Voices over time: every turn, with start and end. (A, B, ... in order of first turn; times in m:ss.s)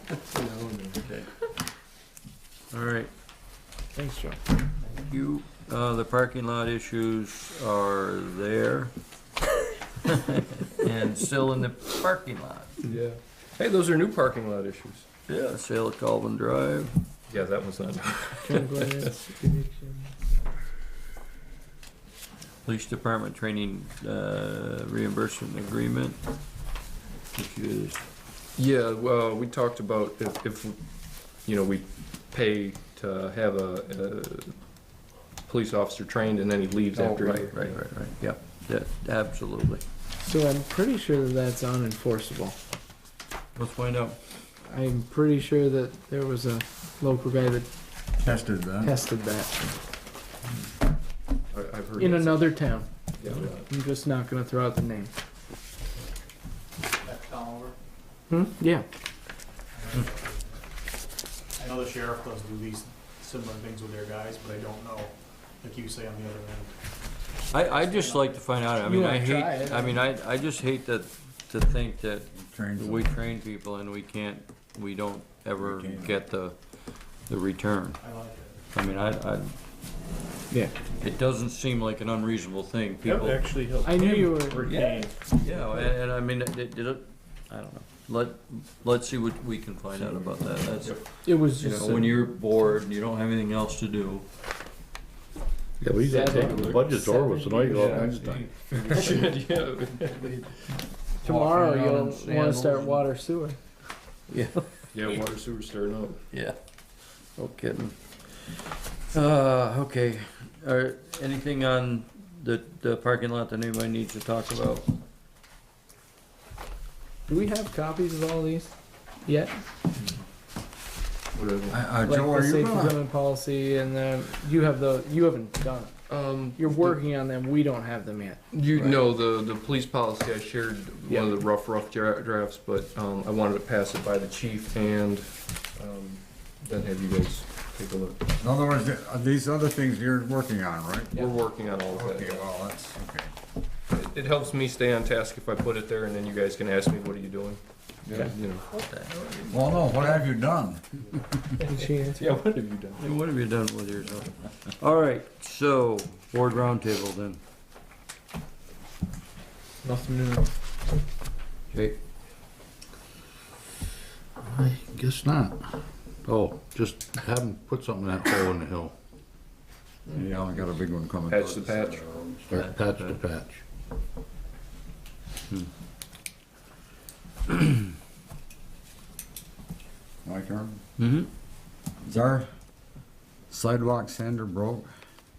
0:00.3-0:01.1 A
0:02.7-0:03.1 B
0:03.9-0:04.4 C
0:05.0-0:08.9 B
0:10.0-0:12.8 B
0:12.8-0:15.1 A
0:15.3-0:16.9 B
0:17.3-0:19.1 A
0:18.4-0:20.1 C
0:22.6-0:26.2 B
0:27.3-0:28.0 B
0:28.6-0:30.8 A
0:31.4-0:34.6 A
0:35.4-0:37.8 A
0:36.9-0:39.8 B
0:40.2-0:42.6 C
0:43.5-0:44.2 B
0:44.6-0:47.7 C
0:48.2-0:49.0 D
0:48.8-0:49.6 C
0:51.5-0:52.6 A
0:52.0-0:55.1 C
0:53.2-0:53.6 A
0:57.0-0:57.7 E
0:58.3-0:58.9 C
0:59.7-1:00.6 E
1:01.6-1:06.8 E
1:07.5-1:16.6 B
1:07.7-1:08.4 E
1:08.8-1:10.0 C
1:12.3-1:13.1 D
1:15.6-1:16.2 D
1:17.1-1:18.0 B
1:18.0-1:18.6 E
1:18.7-1:19.5 B
1:20.5-1:20.8 C
1:21.0-1:23.4 B
1:23.0-1:25.9 E
1:23.8-1:24.7 C
1:24.6-1:34.2 B
1:31.2-1:32.2 C
1:35.8-1:38.5 F
1:35.9-1:38.4 C
1:37.7-1:39.6 B
1:38.8-1:40.4 A
1:41.2-1:43.1 B
1:41.2-1:43.6 C
1:44.3-1:44.6 C
1:44.9-1:46.2 A
1:46.3-1:46.6 B
1:47.4-1:54.9 B
1:57.3-1:59.6 C
2:01.3-2:01.8 A
2:01.7-2:03.0 D
2:02.0-2:05.9 C
2:06.1-2:07.0 A
2:06.5-2:08.4 C
2:08.5-2:18.2 A
2:08.7-2:09.0 B
2:18.4-2:21.2 D
2:21.1-2:22.4 A
2:21.9-2:23.3 D
2:23.9-2:28.6 A
2:28.7-2:30.1 B
2:29.5-2:31.0 D
2:31.6-2:33.0 A
2:31.6-2:32.3 C
2:33.0-2:37.4 B
2:39.8-2:40.4 A
2:44.4-2:45.7 F
2:46.2-2:48.9 F
2:50.1-2:52.5 D
2:51.3-2:52.0 A
2:52.5-2:53.6 F
2:52.5-2:53.1 B
3:00.2-3:00.8 D
3:01.0-3:01.3 B
3:02.0-3:02.5 D
3:03.5-3:04.9 D